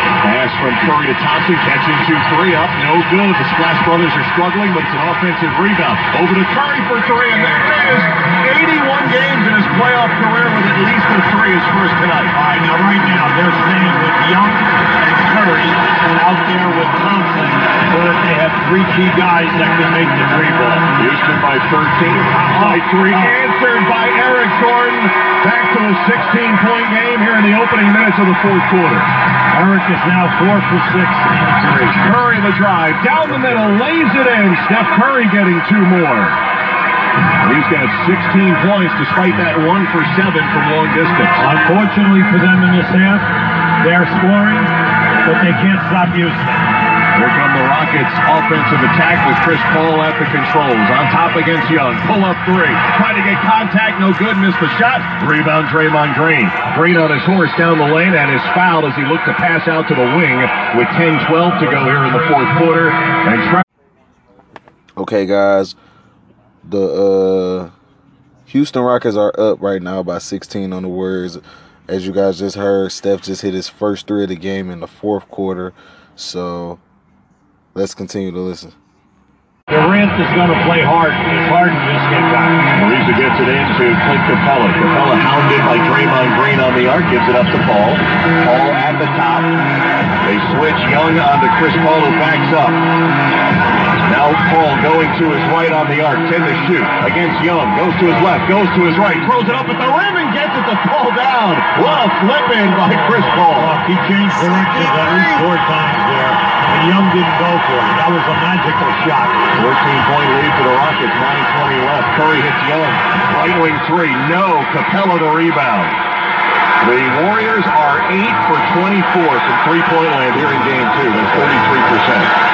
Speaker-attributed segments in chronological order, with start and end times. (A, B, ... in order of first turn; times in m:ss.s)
0:00.2-0:12.3 A
0:12.3-0:21.0 B
0:21.0-0:29.1 A
0:22.3-0:23.3 B
0:29.5-0:31.9 B
0:31.9-0:36.4 A
0:37.4-0:41.4 A
0:41.4-0:46.8 B
0:47.1-1:03.6 A
1:05.0-1:05.8 C
1:06.6-1:07.7 C
1:08.4-1:16.8 C
1:17.7-1:18.8 C
1:19.7-1:22.7 B
1:22.8-1:29.6 A
1:30.2-1:32.8 A
1:34.0-1:43.8 A
1:43.5-1:49.5 B
1:44.3-1:45.5 C
1:49.5-1:56.0 A
1:56.8-2:02.3 A